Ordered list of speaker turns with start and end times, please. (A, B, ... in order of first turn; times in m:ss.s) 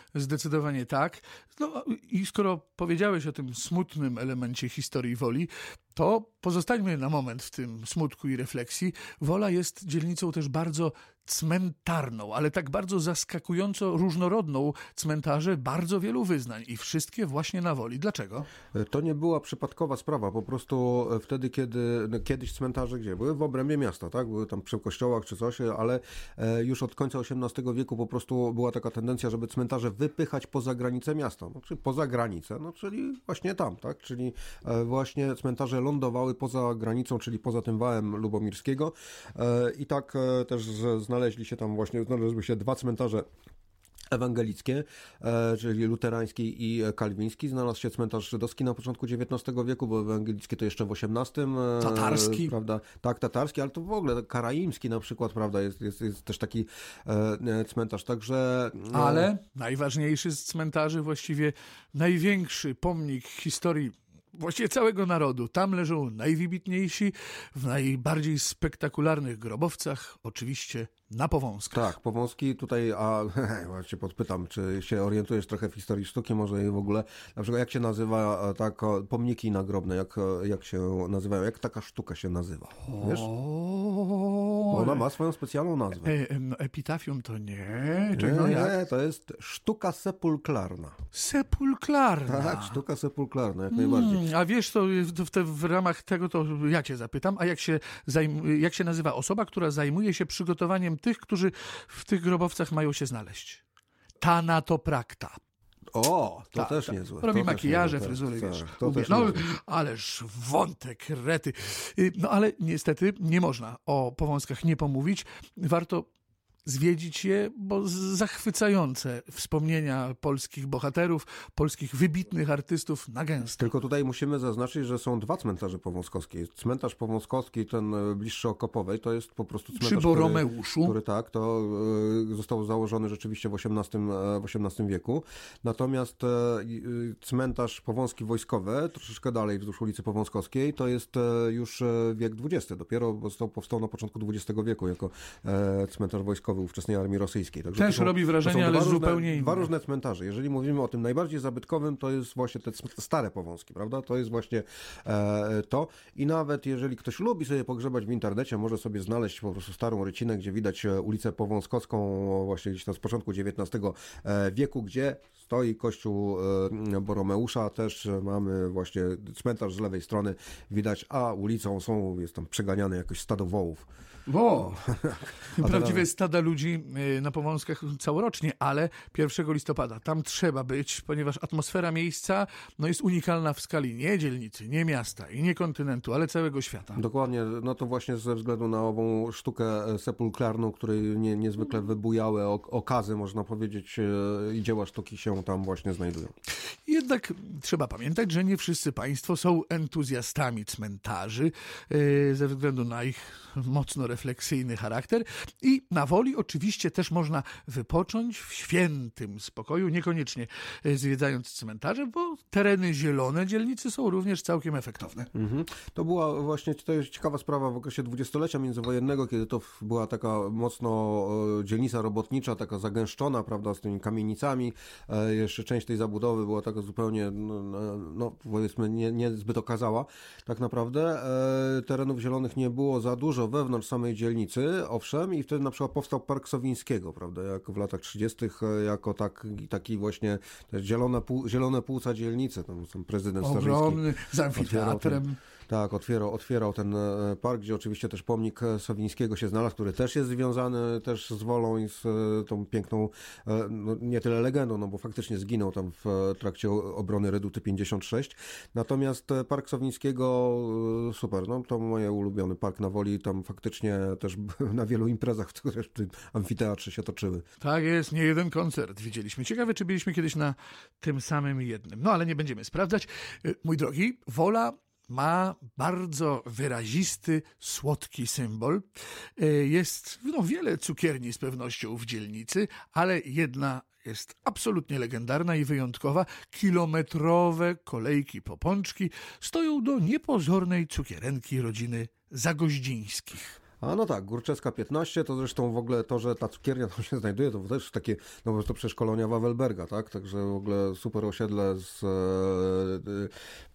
0:00.1-0:18.5 A
0:18.7-0:43.3 B
0:44.1-0:59.3 B
0:51.8-0:52.5 A
0:58.9-1:11.9 A
1:11.7-1:23.3 B
1:22.8-1:25.0 A
1:24.7-1:26.1 B
1:26.0-1:28.8 A
1:28.1-1:31.0 B
1:31.1-1:32.8 A
1:32.3-1:34.2 B
1:33.7-1:43.6 A
1:44.2-1:45.4 A
1:45.9-1:49.5 B
1:46.6-1:56.1 A
1:56.6-2:03.7 A
2:03.6-2:53.8 B
2:09.8-2:11.0 A
2:27.8-2:29.7 A
2:54.3-2:54.8 A
2:54.6-2:56.1 B
2:55.6-3:07.0 A
3:07.0-3:16.3 B
3:16.9-3:35.3 A
3:35.3-4:27.4 B
4:03.4-4:05.4 A
4:27.6-4:53.6 A
4:53.8-5:03.3 B